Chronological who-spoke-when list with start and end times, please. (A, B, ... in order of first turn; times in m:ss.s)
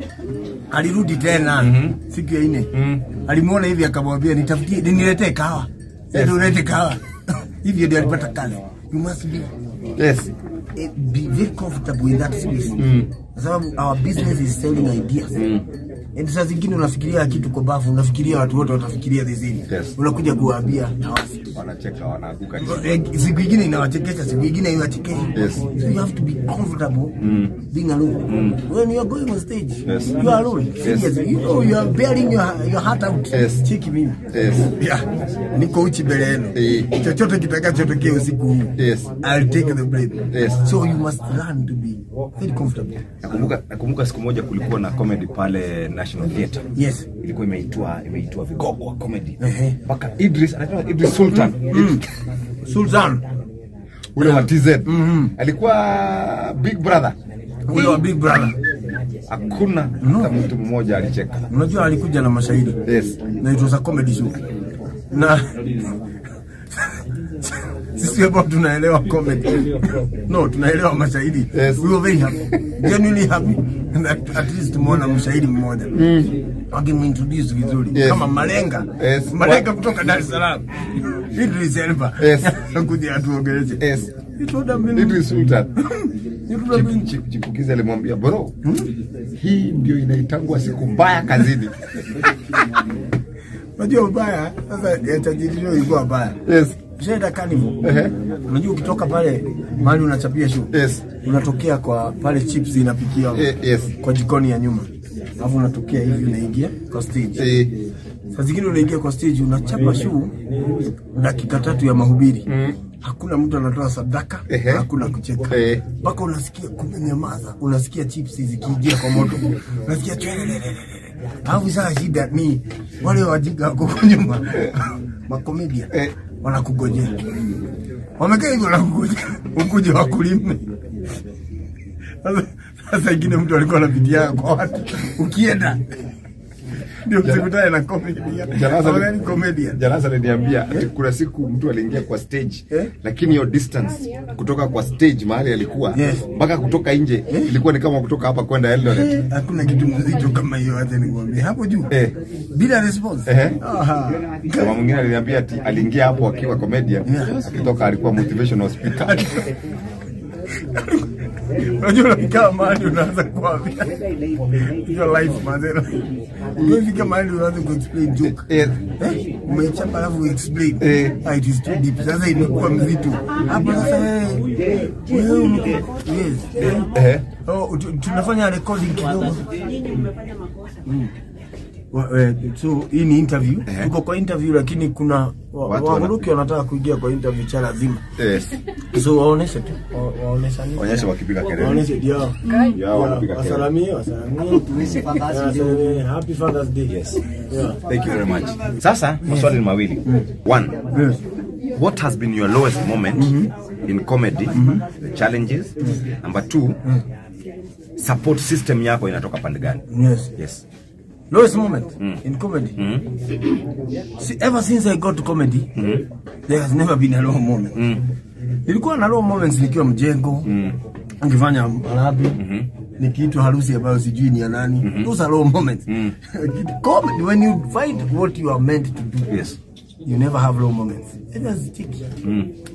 0:00.7-0:09.5 A
0:01.6-0:02.0 B
0:02.7-0:03.1 B
0:06.1-0:06.5 B
0:10.0-0:10.3 B
0:10.8-0:15.4 A
0:12.8-0:13.1 B
0:15.4-0:15.7 B
0:16.2-0:21.6 A
0:19.7-0:19.9 B
0:21.5-0:23.0 B
0:22.6-0:43.0 A
0:25.3-0:25.7 B
0:27.2-0:27.6 B
0:28.3-0:28.6 B
0:29.9-0:31.1 B
0:33.3-0:33.7 B
0:34.3-0:34.7 B
0:36.5-0:37.0 B
0:38.8-0:39.1 B
0:40.3-0:40.6 B
0:43.2-0:46.6 B
0:46.8-0:47.1 A
0:47.2-0:52.0 B
0:49.4-0:49.8 A
0:51.3-0:52.0 A
0:52.6-0:53.2 A
0:54.2-0:57.2 B
0:54.2-0:55.3 A
0:57.7-0:58.6 A
0:57.7-0:58.0 B
0:59.3-1:01.5 B
1:00.0-1:00.3 A
1:01.5-1:02.8 A
1:02.8-1:03.2 B
1:03.4-1:04.4 A
1:05.1-1:05.7 A
1:06.7-1:16.0 A
1:11.5-1:11.8 B
1:15.9-1:16.4 B
1:16.7-1:23.8 A
1:17.9-1:18.3 B
1:19.0-1:19.7 B
1:22.2-1:22.6 B
1:23.8-1:24.1 B
1:24.4-1:27.1 A
1:24.9-1:25.7 B
1:26.7-1:28.6 B
1:29.4-1:31.9 B
1:33.8-1:36.4 A
1:36.5-1:36.8 B
1:37.0-1:37.8 A
1:37.8-1:38.1 B
1:38.5-1:47.5 A
1:40.7-1:41.1 B
1:43.3-1:43.9 B
1:47.4-1:47.7 B
1:48.3-1:50.3 A
1:51.1-1:52.5 A
1:52.5-1:52.8 B
1:53.0-2:07.3 A
1:54.5-1:54.9 B
1:55.5-1:55.8 B
2:08.2-2:10.7 A
2:12.2-2:16.0 A
2:17.0-2:19.8 A
2:18.5-2:29.1 B
2:25.9-2:26.3 A
2:27.3-2:27.6 A
2:28.8-2:31.9 A
2:31.9-2:32.2 B
2:32.5-2:34.8 A
2:33.3-2:33.6 B
2:34.5-2:39.4 B
2:37.0-2:37.4 A
2:38.8-2:39.5 A
2:40.6-2:56.8 A
2:48.2-2:48.8 B
2:50.8-2:51.2 B
2:56.6-2:57.3 B
2:57.4-2:59.5 A
3:00.9-3:01.1 A
3:01.9-3:08.0 A
3:05.7-3:06.2 B
3:08.2-3:08.6 B
3:08.9-3:17.8 A
3:10.8-3:11.9 B
3:12.5-3:13.7 B
3:16.9-3:17.2 B
3:17.9-3:20.8 B
3:19.2-3:20.3 A
3:20.9-3:21.2 A
3:21.8-3:23.3 B
3:23.2-3:23.5 A
3:23.9-3:26.8 B
3:24.5-3:24.8 A
3:28.0-3:29.8 B
3:29.9-3:30.3 A
3:30.4-3:30.6 B
3:31.3-3:32.8 A
3:32.8-3:33.1 B
3:34.2-3:35.7 A
3:35.8-3:36.1 B
3:36.5-3:37.8 A
3:37.8-3:38.1 B
3:38.7-3:40.5 A
3:40.4-3:40.8 B
3:41.2-3:42.4 A
3:42.4-3:42.7 B
3:43.0-3:49.4 A
3:44.8-3:45.1 B
3:45.9-3:46.2 B
3:49.3-3:49.6 B
3:50.0-3:52.1 A
3:52.2-3:52.5 B